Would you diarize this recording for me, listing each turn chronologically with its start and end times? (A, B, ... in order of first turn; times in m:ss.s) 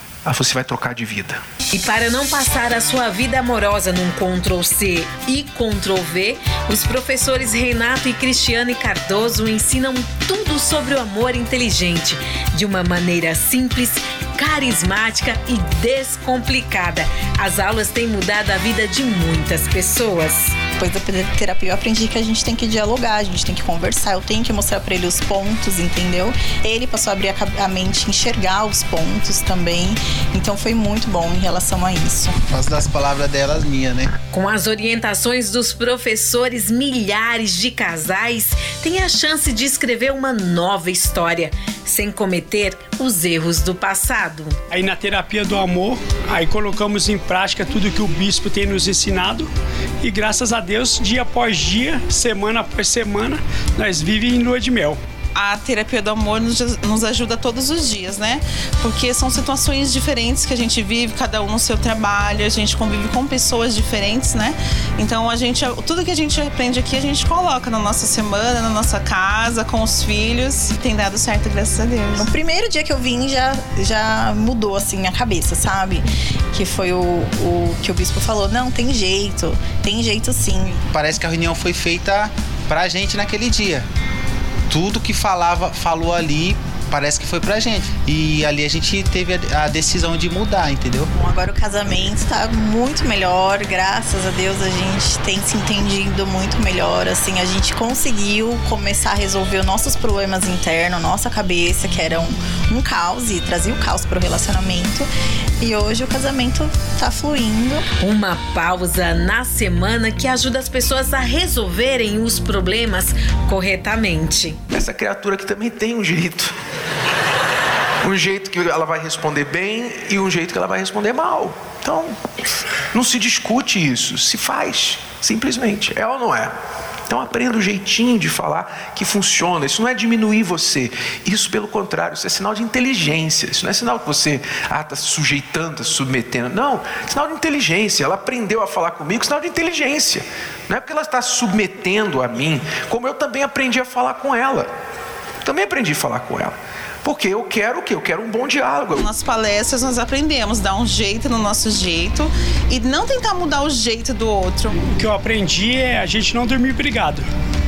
0:00.2-0:01.4 A
0:01.7-0:20.6 B
0:20.8-0:32.4 C
0:32.4-0:34.1 D
0:34.3-0:44.6 B
0:44.7-0:49.5 E
0:50.0-0:55.0 E
0:55.3-1:12.3 F
1:12.2-1:20.8 C
1:20.9-1:23.9 D
1:24.7-1:31.1 D
1:31.1-1:45.1 C
1:45.6-1:47.8 C
1:48.0-1:54.6 B
1:54.7-1:56.5 A
1:58.0-2:02.2 A
2:02.9-2:06.5 A
2:07.1-2:24.7 A
2:25.4-2:29.1 A
2:29.0-2:34.8 F
2:34.8-2:37.3 E